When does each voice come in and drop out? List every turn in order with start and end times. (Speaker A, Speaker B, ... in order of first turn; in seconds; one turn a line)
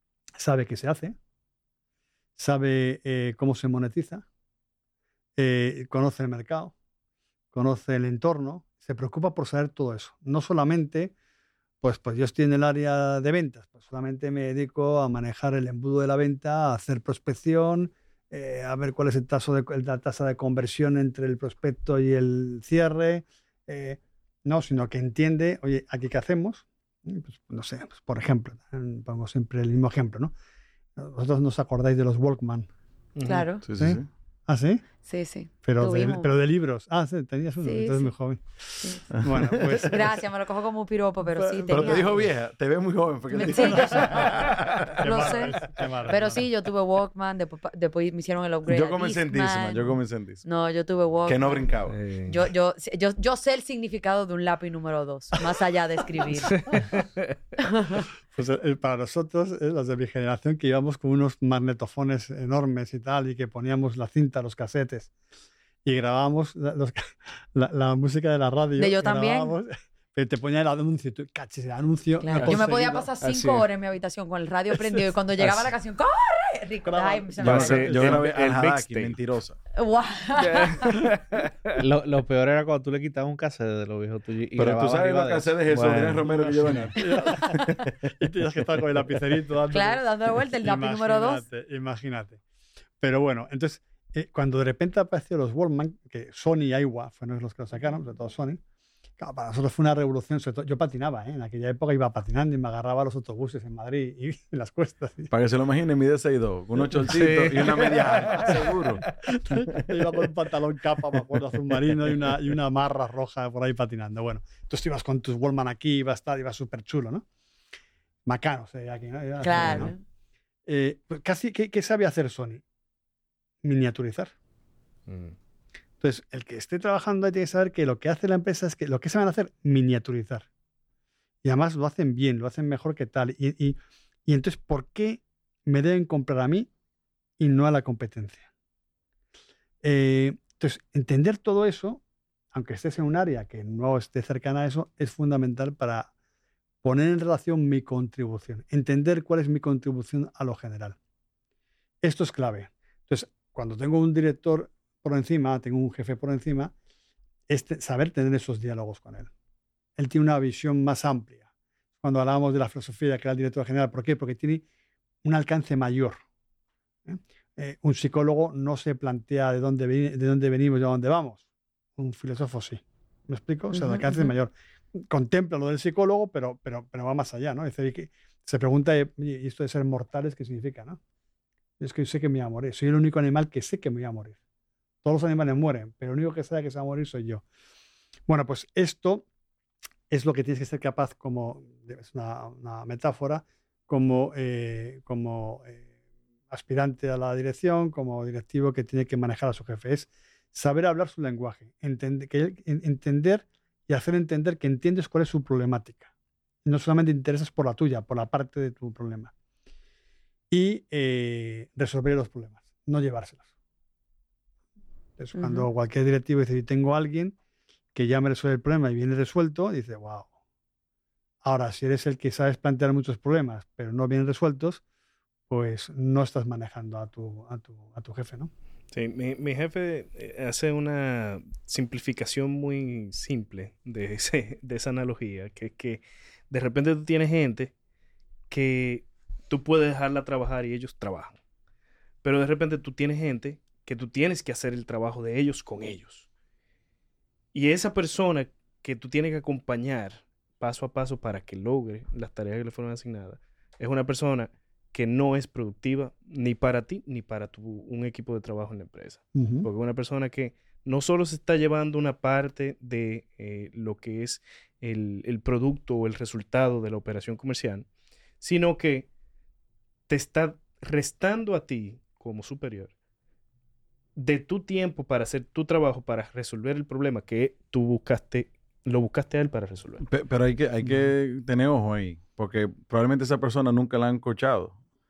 Speaker A: 0.4-1.1
Speaker A: 2.4-4.2
Speaker A: 5.4-6.7
Speaker A: 7.5-11.1
Speaker A: 11.8-30.3
Speaker A: 30.9-32.7
Speaker B: 33.2-33.5
Speaker C: 33.2-33.6
Speaker D: 33.6-34.1
Speaker A: 33.8-34.8
Speaker C: 35.0-36.3
Speaker A: 35.6-40.2
Speaker C: 37.6-38.1
Speaker C: 38.8-39.1
Speaker D: 39.1-39.7
Speaker C: 39.6-42.2
Speaker A: 41.4-42.0
Speaker D: 41.7-45.3
Speaker C: 43.3-51.7
Speaker A: 43.5-46.4
Speaker D: 48.7-50.4
Speaker D: 51.2-52.0
Speaker B: 51.9-52.4
Speaker C: 52.3-56.9
Speaker B: 56.5-57.3
Speaker C: 57.6-58.1
Speaker A: 58.3-65.1
Speaker A: 65.8-73.1
Speaker C: 68.8-69.5
Speaker C: 72.2-77.9
Speaker B: 72.3-72.7
Speaker B: 73.2-73.6
Speaker A: 76.8-78.3
Speaker B: 77.4-79.2
Speaker D: 77.4-79.6
Speaker C: 79.7-81.1
Speaker B: 80.4-81.8
Speaker E: 81.8-86.9
Speaker D: 84.5-87.3
Speaker B: 85.9-86.9
Speaker A: 87.0-92.4
Speaker C: 89.7-91.4
Speaker A: 93.0-98.6
Speaker A: 99.2-105.3
Speaker D: 105.3-109.0
Speaker B: 107.1-109.0
Speaker A: 109.2-117.2
Speaker A: 118.2-119.9
Speaker C: 119.4-120.0
Speaker A: 120.7-122.6
Speaker A: 123.6-124.3
Speaker B: 125.1-125.3
Speaker A: 126.0-130.5
Speaker A: 131.4-136.7
Speaker A: 137.4-138.5
Speaker A: 139.8-142.0
Speaker A: 142.5-146.1
Speaker A: 146.8-151.0
Speaker A: 152.0-156.7
Speaker A: 157.5-159.3
Speaker A: 160.0-161.4
Speaker A: 162.0-164.6
Speaker A: 165.2-166.2
Speaker A: 167.1-181.0
Speaker C: 173.7-174.3
Speaker A: 181.8-184.4
Speaker A: 185.0-187.4
Speaker A: 188.3-189.2
Speaker A: 190.1-195.8
Speaker A: 196.5-206.1
Speaker A: 206.6-209.3
Speaker A: 210.5-213.5
Speaker A: 215.2-217.3
Speaker C: 215.4-215.7
Speaker A: 217.9-220.3
Speaker A: 221.4-224.8
Speaker A: 225.5-228.5
Speaker B: 228.9-237.7
Speaker B: 238.5-241.3
Speaker B: 242.2-246.3
Speaker B: 247.5-267.9
Speaker A: 259.3-259.7
Speaker B: 268.4-269.1
Speaker B: 270.1-272.9
Speaker B: 274.1-280.0
Speaker D: 280.0-284.8